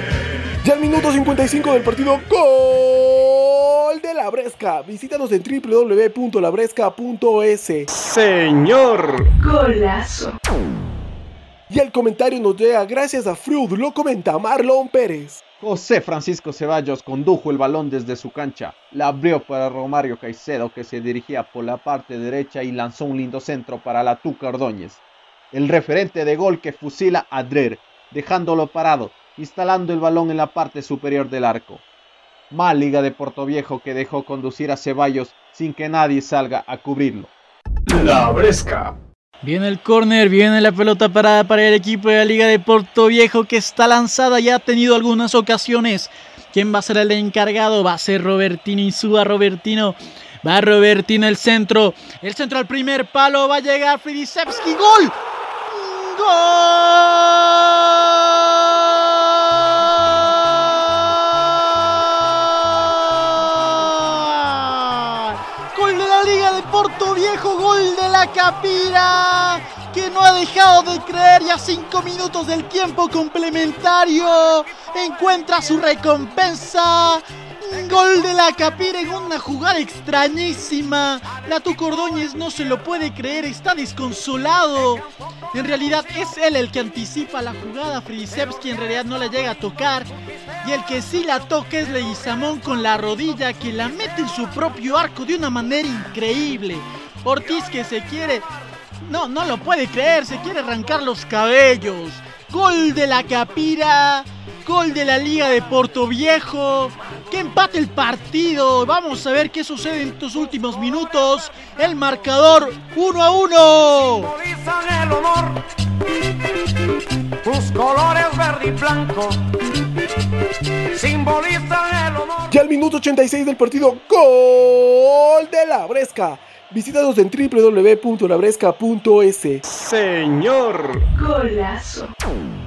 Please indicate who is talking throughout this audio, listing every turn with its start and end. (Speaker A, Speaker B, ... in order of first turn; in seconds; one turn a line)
Speaker A: 0.6-7.9
Speaker B: 7.9-9.3
Speaker C: 9.4-10.3
Speaker A: 11.7-15.4
Speaker D: 15.6-25.0
Speaker D: 25.5-31.8
Speaker D: 32.5-37.3
Speaker B: 37.9-39.0
Speaker E: 39.4-55.1
Speaker E: 55.7-90.1
Speaker E: 90.6-98.4
Speaker E: 99.0-114.3
Speaker F: 114.2-115.6
Speaker F: 117.4-119.4
Speaker F: 120.9-122.5
Speaker A: 122.5-129.6
Speaker B: 129.7-131.1
Speaker C: 131.2-132.1